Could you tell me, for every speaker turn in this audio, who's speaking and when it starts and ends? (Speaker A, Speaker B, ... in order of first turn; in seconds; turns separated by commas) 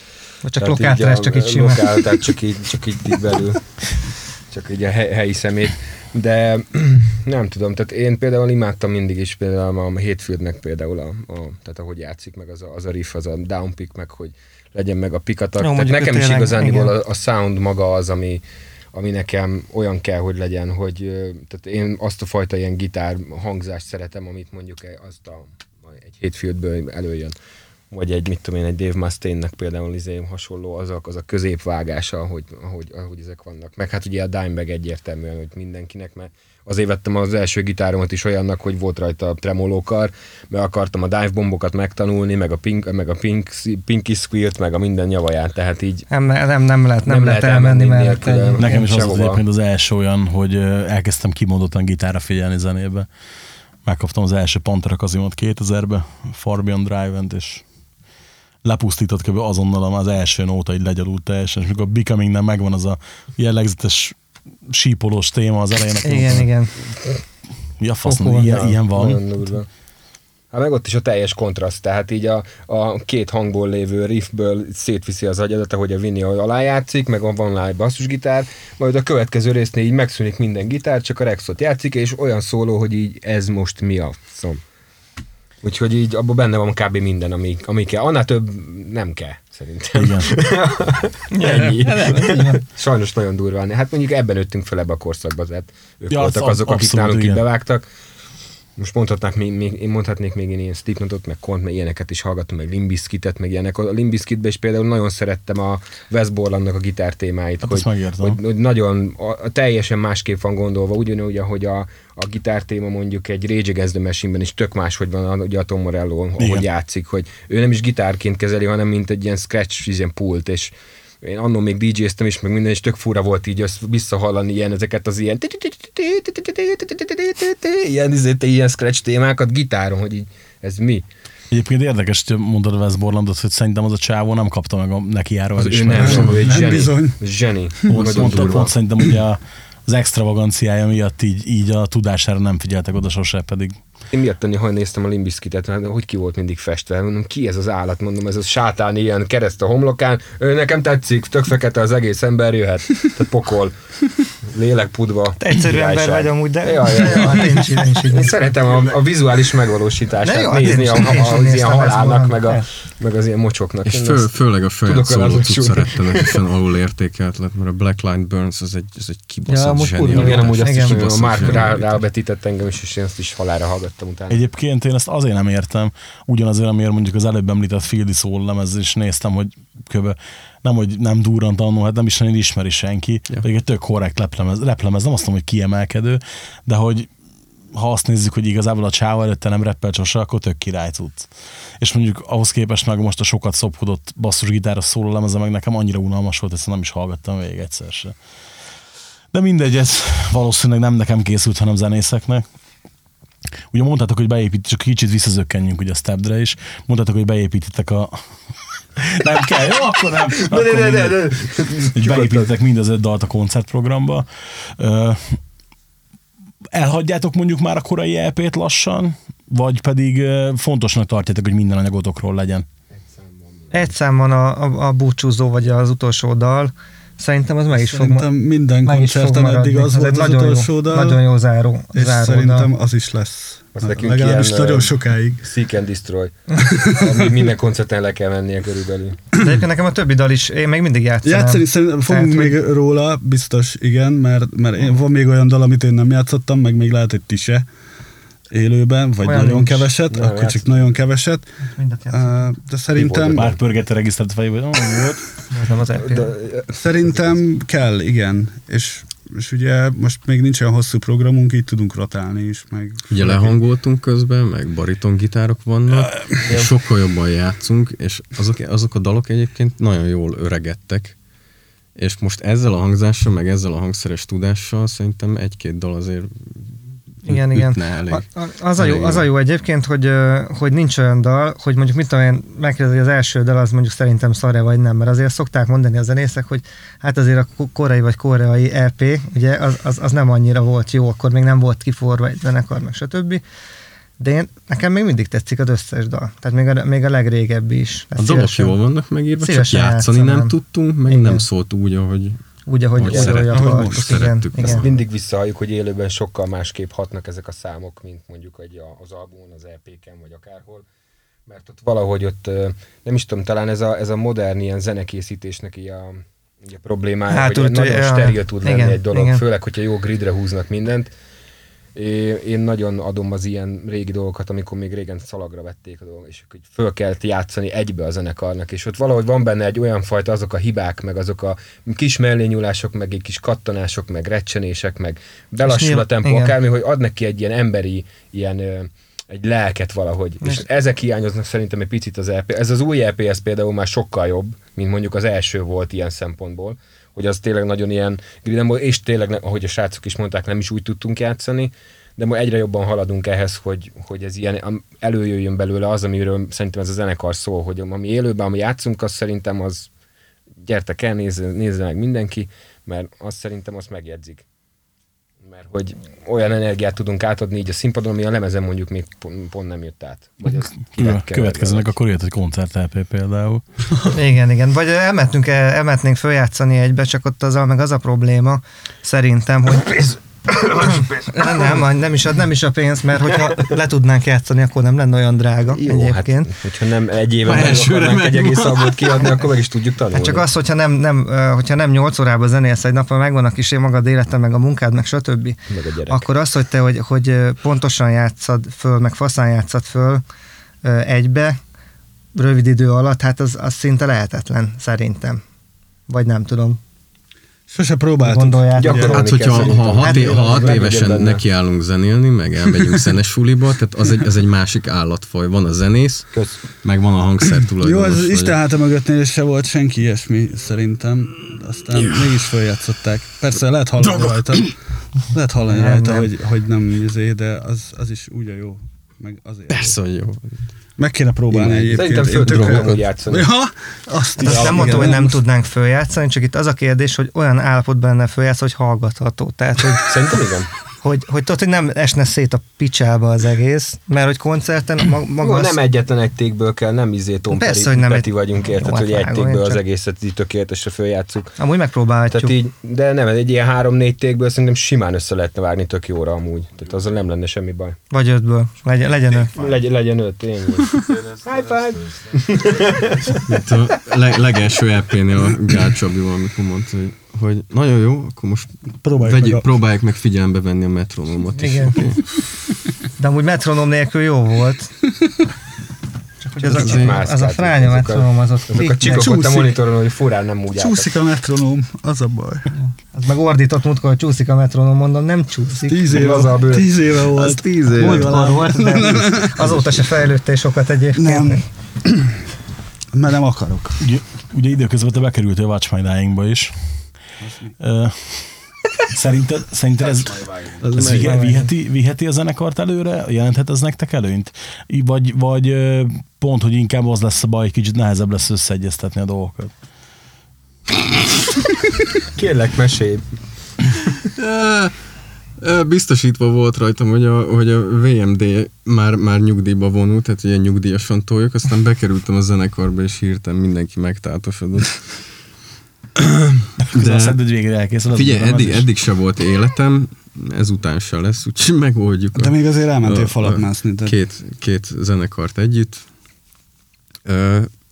Speaker A: 0.4-2.0, Speaker B: 0.6-3.7, Speaker B: 4.5-27.4, Speaker A: 15.6-16.9, Speaker B: 27.9-46.1, Speaker A: 46.1-48.9, Speaker B: 47.1-49.4, Speaker C: 48.6-53.1, Speaker C: 53.9-57.6, Speaker C: 58.6-66.5, Speaker A: 66.0-66.7, Speaker C: 67.8-69.2, Speaker A: 68.0-68.5, Speaker B: 68.3-69.7, Speaker B: 70.5-84.6, Speaker B: 85.6-97.8, Speaker C: 90.0-90.3, Speaker A: 91.3-92.6, Speaker C: 96.1-97.4, Speaker B: 98.8-131.1, Speaker C: 107.6-108.4, Speaker C: 116.4-116.7, Speaker C: 131.5-136.4, Speaker B: 135.6-138.8, Speaker D: 135.9-137.2, Speaker C: 137.9-143.8, Speaker B: 144.1-153.7, Speaker B: 154.4-164.3, Speaker A: 155.4-158.4, Speaker A: 160.2-162.7, Speaker E: 163.8-171.8, Speaker B: 164.9-166.4, Speaker A: 169.5-172.0, Speaker B: 170.1-174.4, Speaker C: 174.3-187.1, Speaker C: 187.7-198.2, Speaker C: 199.3-202.4, Speaker C: 203.7-208.2, Speaker C: 209.0-215.4, Speaker B: 210.3-212.5, Speaker C: 216.7-222.7, Speaker B: 222.9-223.9, Speaker A: 223.7-228.3, Speaker D: 227.7-231.2, Speaker A: 228.8-232.7, Speaker D: 231.9-235.4, Speaker B: 233.8-239.2, Speaker D: 236.6-237.2, Speaker A: 239.4-242.6, Speaker D: 241.2-247.7, Speaker D: 248.5-251.5, Speaker A: 249.2-249.9, Speaker B: 250.1-250.9, Speaker A: 251.7-252.5, Speaker D: 252.1-253.5, Speaker B: 252.9-253.6, Speaker C: 253.4-255.2, Speaker A: 255.5-256.3, Speaker B: 256.0-257.4, Speaker D: 256.7-263.5, Speaker E: 263.1-271.2, Speaker D: 265.9-266.5, Speaker E: 272.0-276.6, Speaker E: 277.2-278.2, Speaker A: 277.2-293.4, Speaker E: 278.8-279.3, Speaker A: 294.2-298.8, Speaker E: 298.2-302.4, Speaker A: 299.4-300.5, Speaker A: 301.1-301.5, Speaker A: 302.7-304.9, Speaker E: 302.9-305.0, Speaker D: 303.1-304.4, Speaker B: 304.6-310.9, Speaker B: 311.5-321.1, Speaker A: 317.3-319.4, Speaker B: 321.9-359.9, Speaker A: 335.6-336.6, Speaker B: 360.6-364.4, Speaker B: 365.4-371.9, Speaker C: 370.5-373.6, Speaker A: 374.1-386.5, Speaker B: 380.6-381.7, Speaker B: 385.7-390.4, Speaker E: 387.4-389.3, Speaker A: 390.1-400.2, Speaker B: 395.7-396.2, Speaker A: 400.8-401.6, Speaker A: 402.4-405.4, Speaker A: 406.1-406.8, Speaker D: 407.7-410.3, Speaker A: 408.2-409.3, Speaker B: 408.8-411.4, Speaker E: 409.1-416.3, Speaker A: 410.0-410.6, Speaker E: 416.8-418.6, Speaker D: 417.8-430.0, Speaker A: 425.7-426.3, Speaker E: 429.7-430.6, Speaker D: 431.0-435.4, Speaker E: 431.5-433.0, Speaker B: 431.6-433.5, Speaker A: 434.4-440.1, Speaker B: 434.4-435.2, Speaker B: 440.0-440.7, Speaker A: 441.0-445.8, Speaker B: 445.4-451.6, Speaker A: 447.5-449.8, Speaker A: 451.6-452.6, Speaker B: 452.3-458.0, Speaker A: 458.1-459.5, Speaker B: 459.5-463.4, Speaker E: 463.5-472.4, Speaker D: 469.0-469.7, Speaker A: 471.5-472.2, Speaker A: 473.2-474.9, Speaker A: 476.4-479.3, Speaker B: 476.6-481.1, Speaker D: 476.7-477.1, Speaker E: 476.8-477.1, Speaker D: 478.8-479.8, Speaker D: 480.8-482.7, Speaker A: 482.7-486.4, Speaker D: 485.9-489.9, Speaker B: 486.1-488.4, Speaker A: 488.0-491.7, Speaker D: 491.1-492.3, Speaker D: 493.1-494.0, Speaker C: 494.0-497.1, Speaker D: 497.4-497.8, Speaker C: 497.8-509.7, Speaker E: 500.8-501.4, Speaker A: 501.2-501.7, Speaker B: 512.4-513.2, Speaker E: 514.4-515.0, Speaker E: 515.6-525.2, Speaker E: 526.2-527.4, Speaker C: 526.9-528.9, Speaker E: 528.1-536.1, Speaker D: 532.4-534.2, Speaker E: 537.2-537.7